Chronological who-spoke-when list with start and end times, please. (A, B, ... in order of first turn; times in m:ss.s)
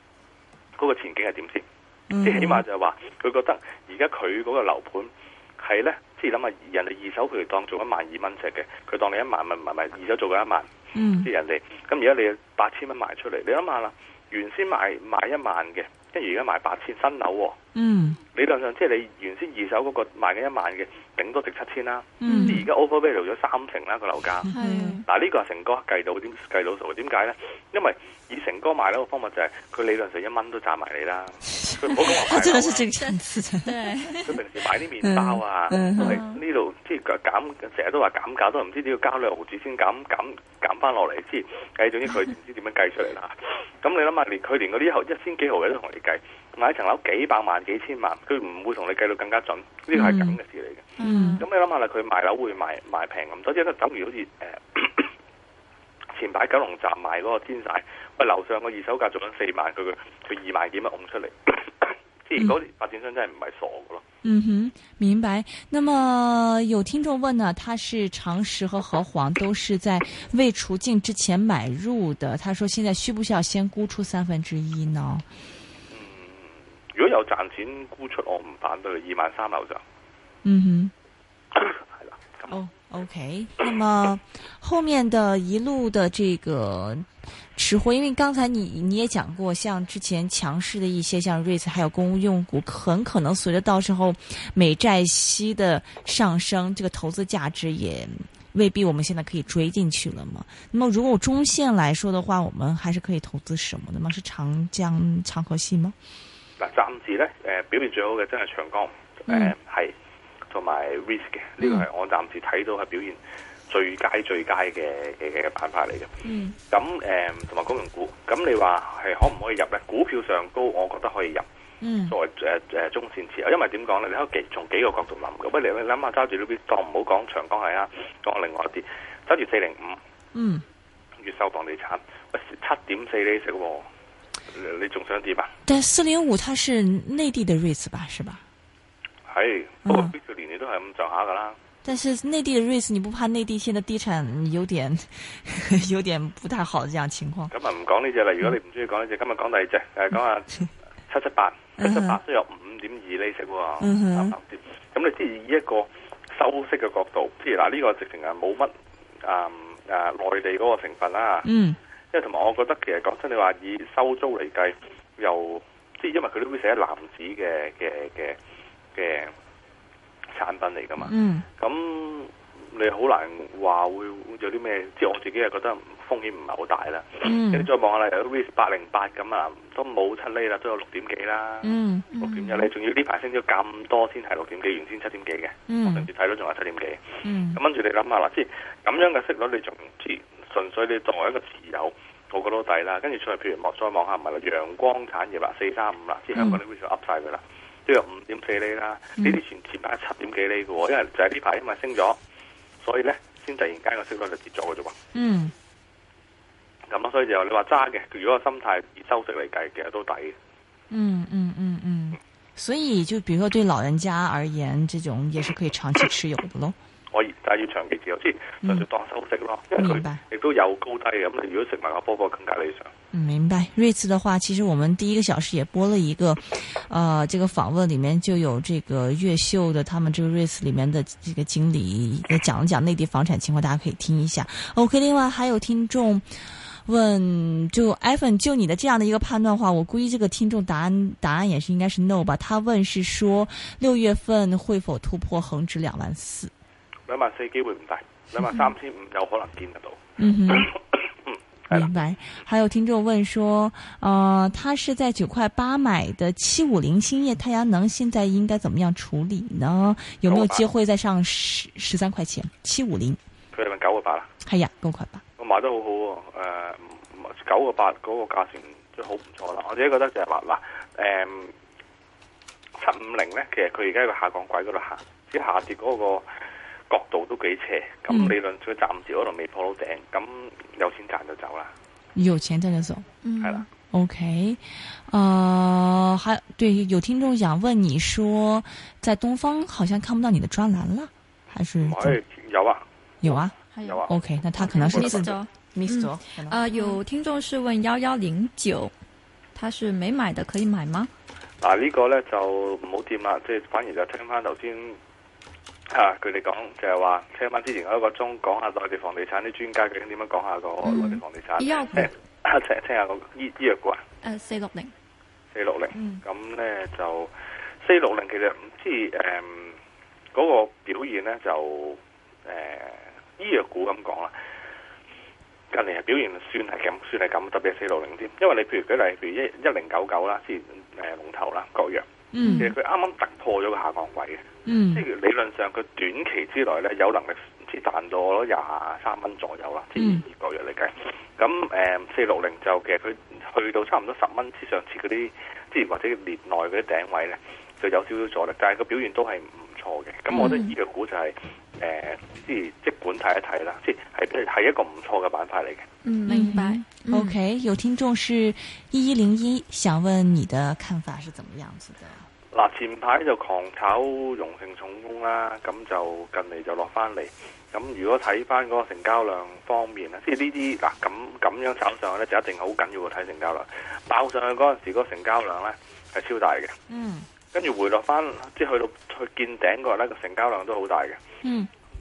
0:00.8-0:01.6 A
0:02.1-0:02.6 B
0:02.2-0:10.7 A
0:10.9-0:11.3 B
0:11.2-0:17.6 A
0:17.8-0:18.2 B
0:18.3-0:24.5 A
0:22.2-0:22.6 B
0:22.2-0:22.6 C
0:24.4-0:25.0 B
0:24.5-0:25.0 C
0:25.1-0:32.9 A
0:31.5-0:34.2 B
0:32.1-0:34.3 C
0:34.2-0:55.1 A
0:35.0-0:36.2 B
0:36.0-0:36.4 C
0:49.9-0:50.4 B
0:51.0-0:51.4 C
0:51.0-0:51.4 B
0:56.1-1:04.0 A
1:04.2-1:15.2 B
1:15.9-1:19.8 A
1:20.4-1:20.9 B
1:21.5-1:22.5 A
1:22.5-1:46.0 B
1:46.6-1:49.9 A
1:49.3-1:49.5 B
1:50.5-1:53.2 A
1:51.6-1:51.9 B
1:53.7-1:56.1 A
1:56.2-1:56.5 B
1:56.7-2:01.4 A
2:01.8-2:02.2 B
2:02.1-2:10.0 A
2:10.3-2:10.6 B
2:11.2-2:13.9 A
2:14.5-2:15.5 A
2:15.6-2:18.4 B
2:19.3-2:21.6 A
2:19.9-2:20.1 B
2:21.8-2:27.5 B
2:27.5-2:38.7 A
2:31.8-2:32.2 B
2:33.8-2:34.4 B
2:39.2-2:41.5 A
2:41.4-2:41.8 B
2:42.1-2:48.4 A
2:48.9-2:49.3 A
2:50.3-3:22.2 A
2:51.0-2:51.4 B
2:57.2-2:57.7 B
3:01.6-3:02.1 B
3:02.1-3:02.7 C
3:05.7-3:06.1 B
3:07.2-3:07.6 B
3:16.4-3:16.6 B
3:22.8-3:25.0 A
3:25.1-3:25.5 B
3:26.9-3:30.4 A
3:30.9-3:36.8 B
3:37.1-3:42.9 A
3:39.8-3:40.2 B
3:43.1-4:06.5 B
4:07.1-4:10.7 A
4:10.2-4:10.7 B
4:11.3-4:11.9 A
4:11.7-4:23.2 B
4:20.3-4:20.6 A
4:23.5-4:24.3 A
4:24.4-4:25.2 B
4:25.4-4:31.5 A
4:32.8-4:36.3 A
4:36.9-4:41.7 A
4:38.1-4:38.4 B
4:42.1-4:43.1 B
4:43.2-4:43.6 C
4:43.4-4:43.6 A
4:43.9-4:52.2 B
4:51.8-4:55.3 A
4:53.2-4:53.6 B
4:53.7-4:54.0 C
4:54.1-4:57.0 B
4:54.6-4:58.9 C
4:59.6-5:01.1 C
5:01.6-5:05.0 A
5:05.9-5:14.0 A
5:10.8-5:12.1 C
5:14.2-5:14.9 C
5:15.5-5:17.3 A
5:15.9-5:16.2 B
5:17.8-5:19.8 A
5:20.3-5:24.3 A
5:25.7-5:55.9 A
5:32.3-5:32.7 B
5:34.6-5:35.0 B
5:40.0-5:40.2 B
5:50.3-5:50.7 C
5:56.0-5:57.4 C
5:56.3-6:02.3 B
6:02.5-6:16.8 A
6:16.9-6:17.3 B
6:17.5-6:21.2 A
6:21.4-6:21.7 B